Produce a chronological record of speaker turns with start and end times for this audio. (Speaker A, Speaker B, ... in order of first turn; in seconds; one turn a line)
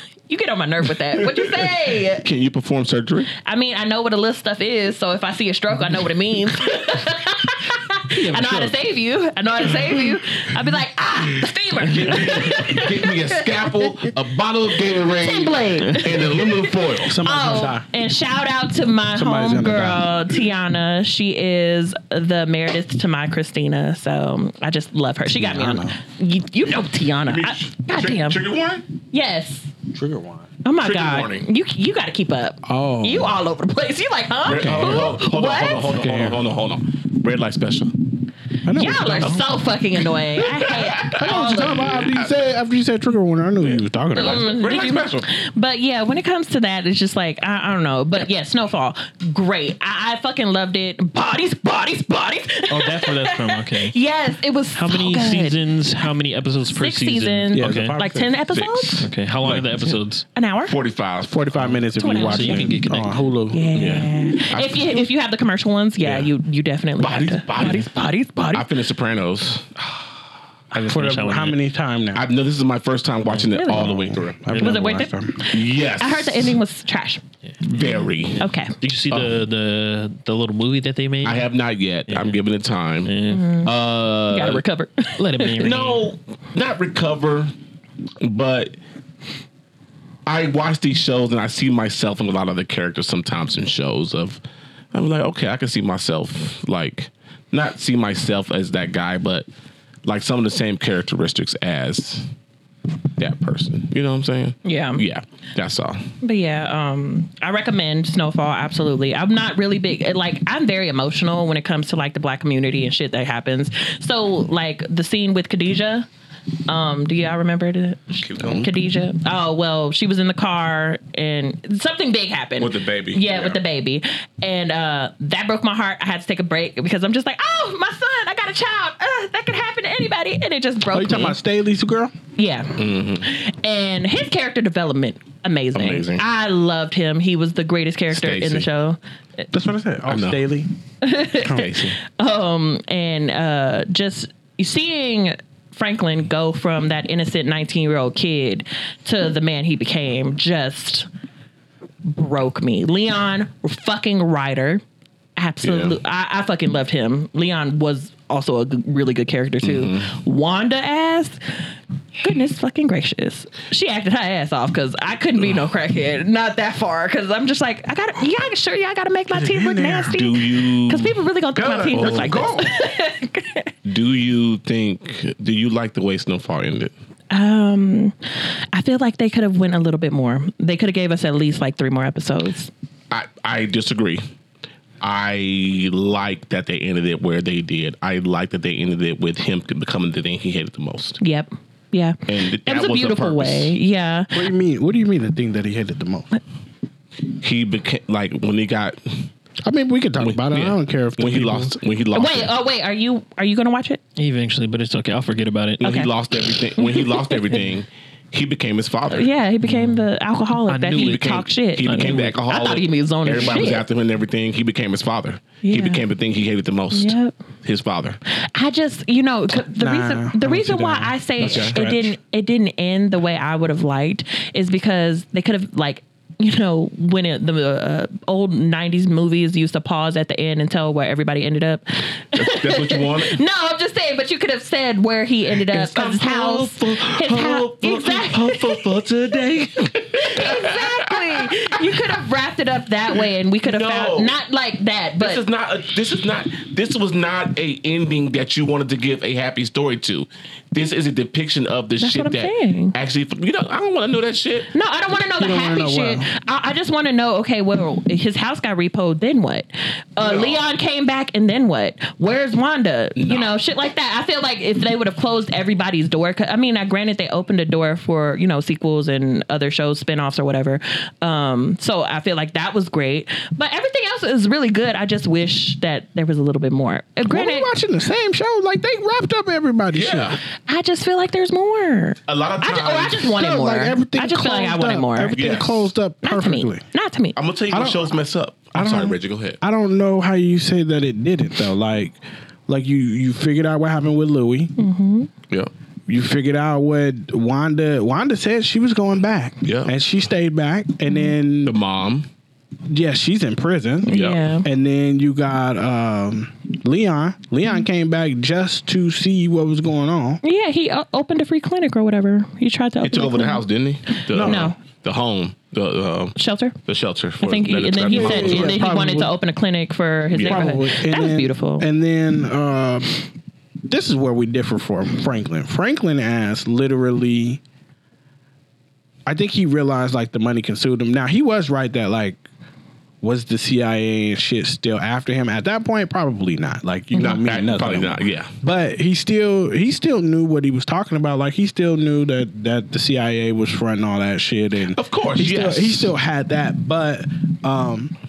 Speaker A: 0.3-2.3
Speaker B: 1.1-3.3
Speaker A: 3.4-13.9
Speaker C: 8.1-8.8
Speaker B: 11.8-17.2
Speaker A: 15.1-16.7
Speaker C: 17.0-17.9
Speaker A: 17.2-28.4
Speaker C: 19.1-20.1
Speaker C: 25.3-26.0
Speaker B: 27.3-28.9
Speaker A: 29.1-29.7
Speaker C: 29.9-30.5
Speaker A: 30.6-36.0
Speaker B: 30.8-31.5
Speaker C: 32.6-33.4
Speaker B: 34.5-38.0
Speaker C: 34.6-35.2
Speaker C: 35.9-36.4
Speaker C: 38.6-39.5
Speaker A: 38.7-42.0
Speaker B: 40.4-42.3
Speaker C: 41.1-44.5
Speaker B: 43.6-45.3
Speaker A: 44.1-55.6
Speaker D: 52.7-54.0
Speaker D: 54.8-58.0
Speaker A: 56.7-59.1
Speaker C: 57.5-58.3
Speaker B: 58.5-60.0
Speaker D: 59.0-60.2
Speaker A: 60.4-60.7
Speaker B: 60.7-61.4
Speaker C: 61.2-64.0
Speaker D: 61.5-63.3
Speaker A: 62.0-62.7
Speaker A: 63.5-68.7
Speaker B: 63.7-64.9
Speaker B: 67.0-67.9
Speaker B: 68.5-69.7
Speaker D: 70.7-71.6
Speaker C: 70.8-72.2
Speaker B: 72.2-74.8
Speaker A: 73.5-73.9
Speaker C: 73.7-75.4
Speaker A: 74.6-77.2
Speaker B: 75.5-76.6
Speaker D: 77.5-81.5
Speaker B: 77.7-78.4
Speaker A: 78.4-78.8
Speaker B: 79.1-79.4
Speaker B: 81.2-84.6
Speaker D: 82.1-82.4
Speaker D: 83.1-83.5
Speaker A: 83.3-83.7
Speaker A: 84.3-85.8
Speaker D: 85.2-86.0
Speaker B: 85.6-87.5
Speaker B: 88.2-88.8
Speaker B: 90.3-94.4
Speaker B: 94.9-99.5
Speaker B: 100.0-102.3
Speaker B: 103.2-106.0
Speaker A: 104.6-105.0
Speaker A: 106.2-116.1
Speaker A: 116.7-131.4
Speaker B: 118.2-118.7
Speaker B: 122.6-123.6
Speaker C: 130.9-132.1
Speaker A: 132.4-139.4
Speaker B: 132.8-133.3
Speaker B: 135.8-136.2
Speaker B: 138.1-138.7
Speaker C: 139.5-140.7
Speaker B: 140.1-140.4
Speaker A: 141.0-151.1
Speaker B: 141.4-142.0
Speaker A: 152.0-154.8
Speaker A: 155.4-161.4
Speaker B: 155.6-156.0
Speaker B: 159.6-160.1
Speaker A: 162.2-173.7
Speaker C: 169.3-170.2
Speaker B: 170.1-172.7
Speaker C: 171.8-172.6
Speaker B: 173.8-176.9
Speaker A: 177.3-182.7
Speaker B: 183.1-184.2
Speaker B: 185.0-191.2
Speaker A: 191.2-194.5
Speaker B: 192.3-193.8
Speaker C: 194.3-196.4
Speaker B: 197.4-199.3
Speaker C: 199.6-201.8
Speaker B: 200.2-202.5
Speaker A: 202.1-204.0
Speaker D: 204.2-205.8
Speaker B: 205.8-209.3
Speaker A: 205.8-206.1
Speaker A: 206.8-207.6
Speaker A: 209.1-213.8
Speaker D: 209.7-210.1
Speaker D: 210.7-212.4
Speaker B: 210.9-218.2
Speaker A: 215.6-216.0
Speaker A: 216.9-217.3
Speaker A: 218.3-239.0
Speaker C: 219.7-222.1
Speaker B: 221.4-221.8
Speaker B: 232.3-233.4
Speaker B: 235.6-242.1
Speaker A: 240.0-245.4
Speaker B: 243.6-244.3
Speaker B: 245.2-254.7
Speaker A: 252.0-252.9
Speaker A: 254.7-277.7
Speaker C: 255.4-256.3
Speaker B: 260.2-260.7
Speaker B: 263.2-263.5
Speaker C: 277.3-280.4
Speaker B: 279.9-280.4
Speaker A: 280.7-285.5
Speaker B: 282.3-283.3
Speaker C: 283.3-286.9
Speaker B: 285.4-285.9
Speaker A: 286.2-287.4
Speaker B: 287.4-289.6
Speaker C: 287.7-288.1
Speaker C: 288.8-294.7
Speaker A: 294.8-295.3
Speaker C: 296.1-301.8
Speaker B: 299.6-299.9
Speaker B: 301.6-302.3
Speaker C: 302.9-310.4
Speaker A: 304.1-304.7
Speaker B: 304.1-304.4
Speaker A: 310.4-314.8
Speaker B: 313.0-318.8
Speaker C: 314.3-314.7
Speaker A: 316.4-316.8
Speaker A: 317.4-321.9
Speaker C: 318.1-319.3
Speaker B: 320.3-320.6
Speaker C: 320.4-323.2
Speaker C: 323.9-327.6
Speaker C: 329.3-332.4
Speaker C: 333.2-348.1
Speaker B: 337.2-338.5
Speaker B: 344.9-346.1